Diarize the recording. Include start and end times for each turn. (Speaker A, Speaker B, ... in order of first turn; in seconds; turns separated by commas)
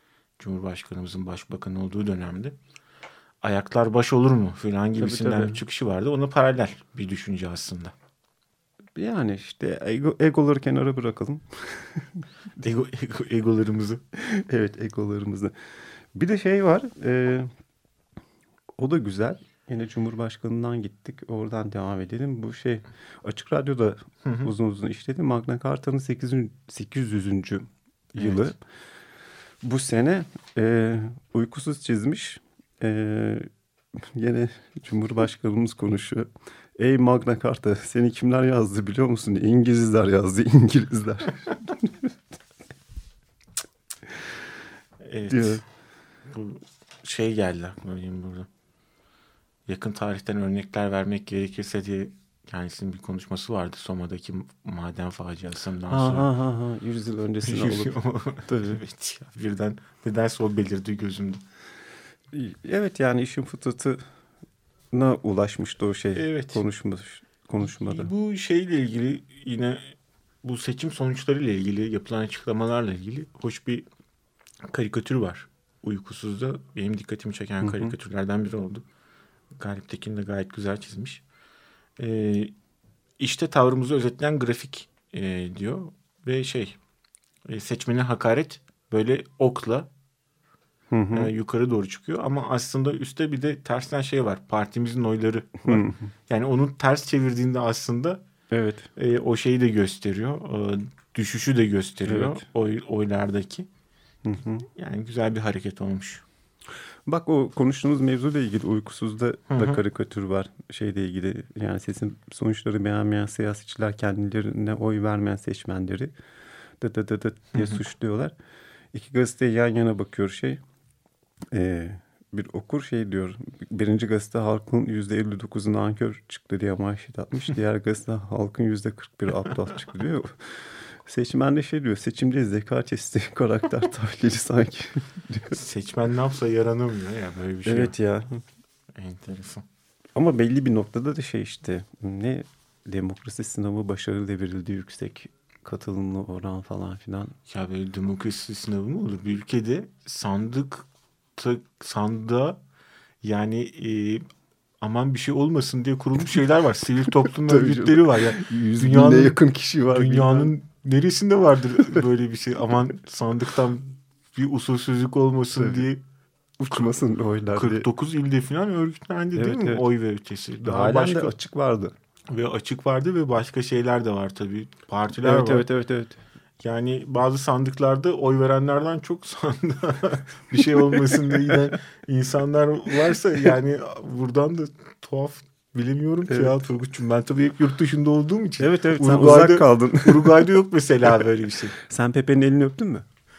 Speaker A: 0.4-2.5, Speaker A: 3.4-7.9, Speaker B: 5.0-5.6, Speaker B: 8.9-12.2, Speaker A: 12.6-14.0, Speaker B: 14.1-15.5, Speaker B: 16.1-17.5, Speaker B: 18.8-28.6, Speaker A: 24.2-24.5, Speaker A: 28.1-28.6, Speaker B: 29.6-33.5, Speaker B: 34.1-42.1, Speaker A: 45.0-45.6, Speaker B: 45.3-45.6, Speaker A: 46.3-48.5, Speaker A: 49.7-56.3, Speaker B: 55.9-58.8, Speaker A: 57.5-61.4, Speaker B: 62.3-64.0, Speaker B: 64.9-68.1, Speaker A: 66.1-66.6, Speaker A: 67.6-73.9, Speaker A: 74.6-78.8, Speaker B: 77.6-77.9, Speaker A: 79.5-81.2, Speaker A: 82.0-82.5, Speaker A: 83.2-86.8, Speaker A: 87.5-89.9, Speaker B: 90.9-91.3, Speaker A: 91.1-98.2, Speaker B: 95.6-96.1, Speaker B: 98.5-98.9, Speaker A: 99.0-103.7, Speaker B: 102.0-102.4, Speaker B: 104.2-104.7, Speaker A: 104.7-106.2, Speaker B: 107.1-116.1, Speaker A: 109.5-109.8, Speaker B: 116.8-118.3, Speaker A: 117.5-117.8, Speaker B: 118.9-120.6, Speaker B: 121.5-135.6, Speaker A: 135.5-137.9, Speaker B: 137.7-138.4, Speaker A: 138.9-139.6, Speaker B: 140.1-147.3, Speaker A: 147.5-152.6, Speaker A: 153.2-154.2, Speaker A: 154.8-159.4, Speaker B: 157.2-160.5, Speaker A: 159.9-166.0, Speaker B: 165.6-165.9, Speaker B: 166.6-167.8, Speaker A: 167.5-171.3, Speaker B: 169.3-169.8, Speaker B: 170.6-171.9, Speaker A: 172.3-175.7, Speaker B: 175.2-176.2, Speaker A: 176.6-191.8, Speaker B: 180.9-181.6, Speaker B: 186.3-186.6, Speaker B: 188.6-190.5, Speaker B: 191.8-193.0